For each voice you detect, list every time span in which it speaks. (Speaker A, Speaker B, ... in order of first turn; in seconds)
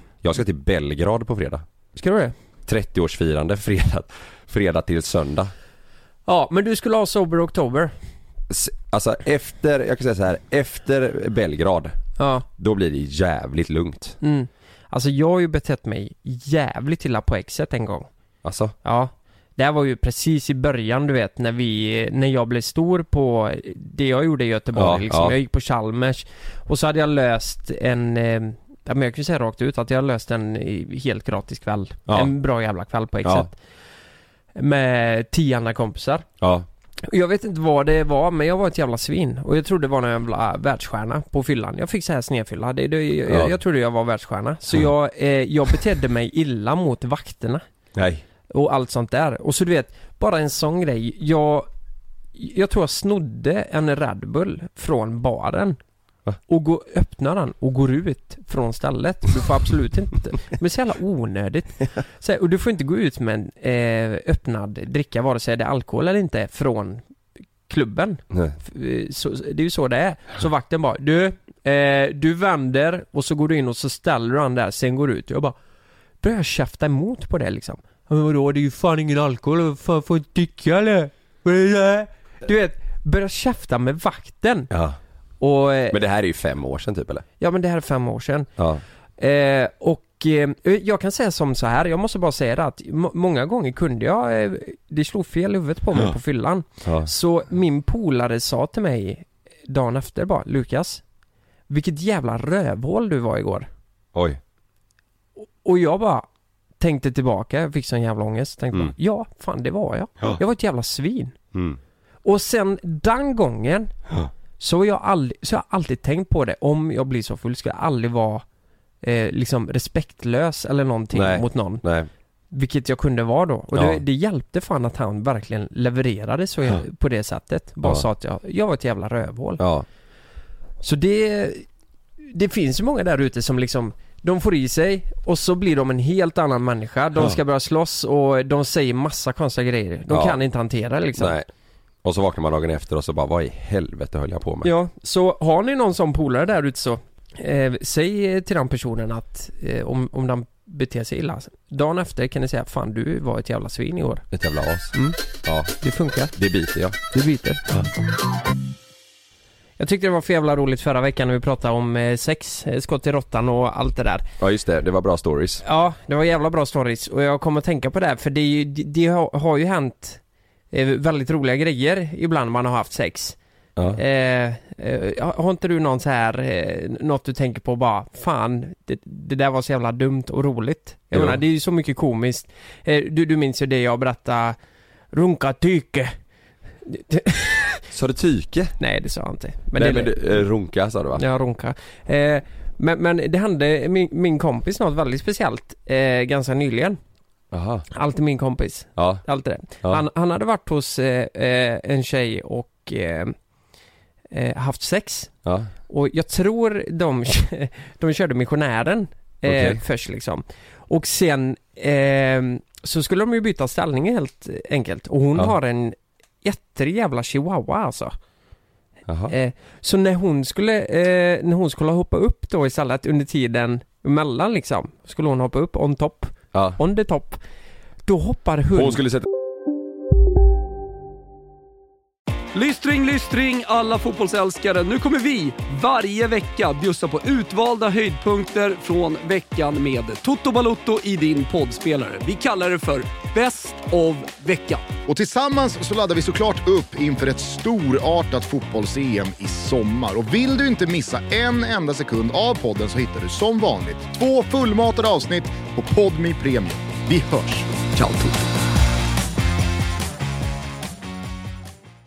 Speaker A: 0.2-1.6, 2.6-5.5, 8.5-11.9, 12.6-14.2, 18.4-18.7, 24.7-25.3, 33.2-33.5, 36.4-36.6, 43.3-43.6, 47.9-48.2, 84.7-85.0, 85.9-87.2, 88.6-88.8, 96.8-97.1, 104.1-104.4, 111.5-111.8, 121.1-122.1, 123.7-124.0, 129.6-129.8, 140.1-140.4, 141.2-141.5, 142.0-144.7, 154.3-154.9, 155.4-155.7, 156.3-157.0, 164.4-165.6, 181.1-181.4, 187.9-188.7, 189.8-191.2, 197.5-197.8, 198.9-199.2, 205.4-205.7, 209.4-209.8, 219.1-219.3, 226.5-226.8, 228.7-229.3, 258.0-258.3
Speaker B: 1.9-2.3, 6.2-7.9, 12.2-12.4, 14.2-18.1, 18.8-33.5, 34.5-36.3, 37.0-47.6, 48.5-51.7, 52.3-55.8, 56.5-67.0, 67.7-75.5, 76.2-84.7, 85.4-86.0, 87.4-88.5, 89.2-101.0, 101.7-103.7, 105.4-106.2, 106.8-111.3, 112.2-113.9, 114.6-118.4, 119.0-121.8, 122.5-129.6, 130.8-131.6, 132.3-141.4, 144.6-154.2, 155.8-156.3, 157.1-157.6, 159.8-164.2, 165.6-170.2, 170.7-173.4, 173.9-184.6, 185.1-186.1, 186.8-187.8, 188.8-190.4, 191.1-197.0, 197.9-203.3, 204.3-205.3, 205.9-218.1, 219.3-227.4, 228.0-229.0
Speaker C: 232.5-244.9
Speaker D: 245.1-257.7